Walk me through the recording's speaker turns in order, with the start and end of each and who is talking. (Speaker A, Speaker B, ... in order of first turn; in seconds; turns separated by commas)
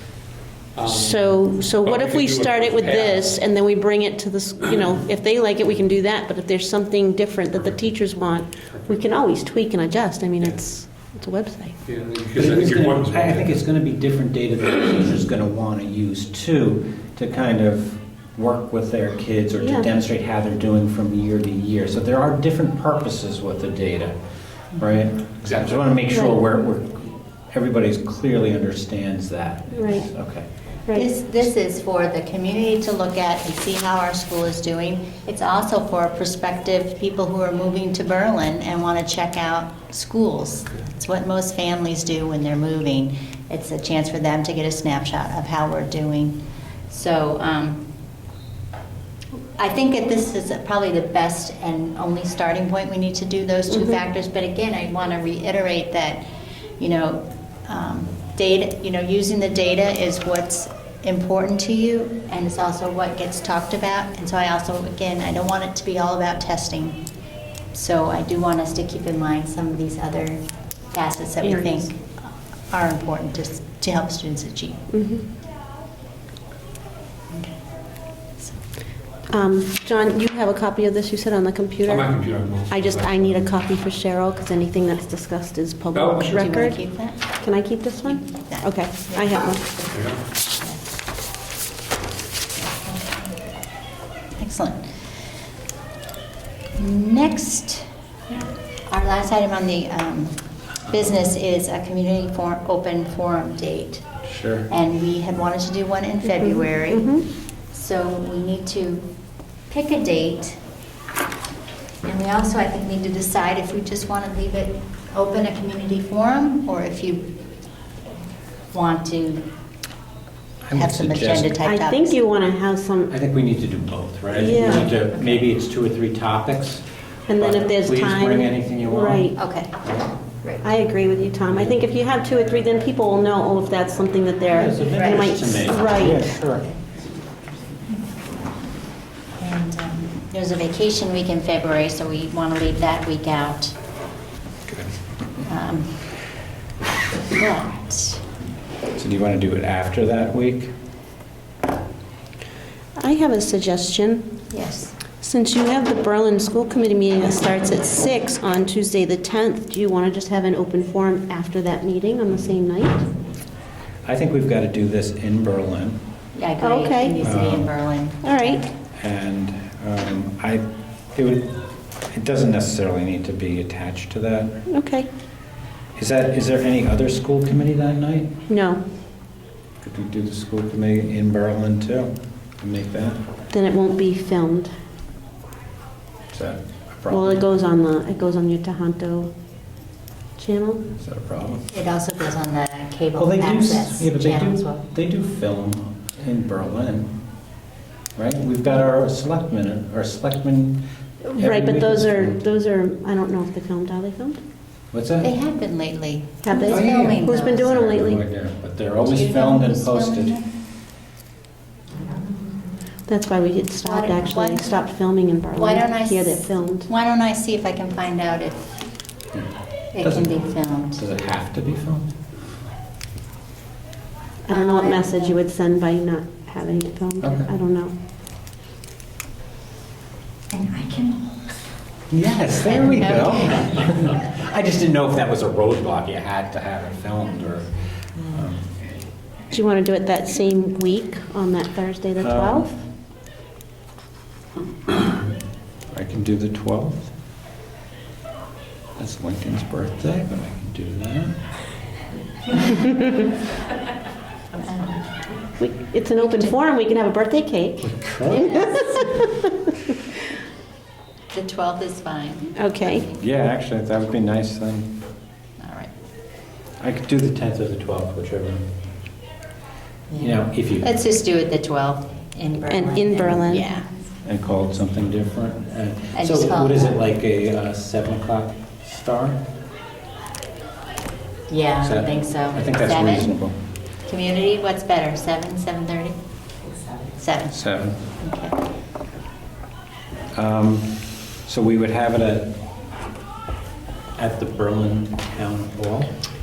Speaker A: 0.7-1.3, Speaker B: 0.8-11.8, Speaker A: 1.8-3.4, Speaker A: 11.8-13.5, Speaker C: 12.3-24.1, Speaker B: 19.6-19.9, Speaker C: 24.7-30.4, Speaker A: 25.4-25.9, Speaker B: 26.1-26.4, Speaker B: 29.7-30.1, Speaker D: 30.9-47.8, Speaker D: 49.6-56.2, Speaker B: 53.7-54.0, Speaker D: 56.8-67.0, Speaker D: 67.7-74.8, Speaker B: 71.4-71.9, Speaker B: 74.9-75.3, Speaker D: 77.3-77.6, Speaker B: 79.3-82.1, Speaker A: 81.8-83.3, Speaker B: 82.7-89.6, Speaker A: 85.9-86.5, Speaker D: 86.2-87.2, Speaker D: 88.0-89.5, Speaker A: 89.8-90.2, Speaker D: 92.6-93.3, Speaker D: 94.4-94.9, Speaker D: 96.8-104.1, Speaker C: 104.2-104.7, Speaker D: 104.7-107.2, Speaker B: 106.2-107.2, Speaker D: 107.7-109.1, Speaker D: 109.7-110.6, Speaker D: 112.0-117.3, Speaker D: 118.7-119.4, Speaker C: 120.6-121.6, Speaker D: 120.7-122.2, Speaker B: 121.6-123.1, Speaker C: 123.1-126.8, Speaker B: 124.3-124.9, Speaker D: 124.7-125.4, Speaker B: 127.3-129.4, Speaker C: 127.4-129.3, Speaker D: 129.3-129.9, Speaker B: 130.6-136.3, Speaker C: 131.5-131.8, Speaker C: 134.5-136.7, Speaker D: 134.8-135.3, Speaker D: 136.0-136.8, Speaker D: 139.4-143.7, Speaker D: 145.4-146.0, Speaker D: 147.3-148.2, Speaker C: 148.9-150.7, Speaker B: 153.0-154.3, Speaker D: 154.5-154.9, Speaker B: 155.2-163.1, Speaker C: 164.1-166.0, Speaker D: 166.3-168.7, Speaker B: 166.6-167.2, Speaker C: 167.2-167.7, Speaker B: 168.2-168.6, Speaker C: 169.0-171.5, Speaker C: 172.1-174.6, Speaker B: 174.7-175.1, Speaker C: 175.9-178.3, Speaker B: 178.5-178.8, Speaker C: 179.8-183.2, Speaker B: 183.5-184.7, Speaker C: 186.3-187.4, Speaker B: 187.1-189.3, Speaker B: 190.4-190.8, Speaker C: 191.0-191.6, Speaker D: 191.7-194.8, Speaker C: 193.2-197.1, Speaker C: 198.2-200.8, Speaker B: 201.2-204.4, Speaker C: 201.3-202.4, Speaker C: 204.9-205.3, Speaker D: 205.2-207.8, Speaker B: 206.4-208.2, Speaker C: 206.7-210.4, Speaker D: 209.0-210.4, Speaker D: 212.0-212.5, Speaker B: 213.1-216.9, Speaker D: 213.8-214.8, Speaker D: 215.5-218.8, Speaker D: 219.9-221.0, Speaker C: 220.0-222.1, Speaker B: 224.4-227.9, Speaker D: 224.5-225.3, Speaker C: 227.2-227.5, Speaker D: 230.5-231.6, Speaker C: 232.1-238.7, Speaker D: 232.6-234.0, Speaker B: 239.5-242.7, Speaker C: 242.2-242.8, Speaker C: 245.9-247.1, Speaker C: 249.0-251.4, Speaker D: 254.6-255.0, Speaker B: 255.6-259.5, Speaker D: 256.2-256.6, Speaker C: 257.8-258.7, Speaker D: 261.3-263.2, Speaker B: 262.6-263.0, Speaker C: 263.2-264.9, Speaker D: 265.6-265.9, Speaker C: 266.8-268.7, Speaker D: 270.1-274.0, Speaker C: 270.2-270.9, Speaker B: 272.7-273.7, Speaker C: 274.2-279.4, Speaker D: 276.1-277.0, Speaker D: 281.5-283.3, Speaker C: 281.8-283.6, Speaker D: 284.1-286.2, Speaker D: 287.2-287.6, Speaker C: 287.5-288.0, Speaker D: 288.2-288.6, Speaker C: 290.3-292.5, Speaker C: 294.2-296.1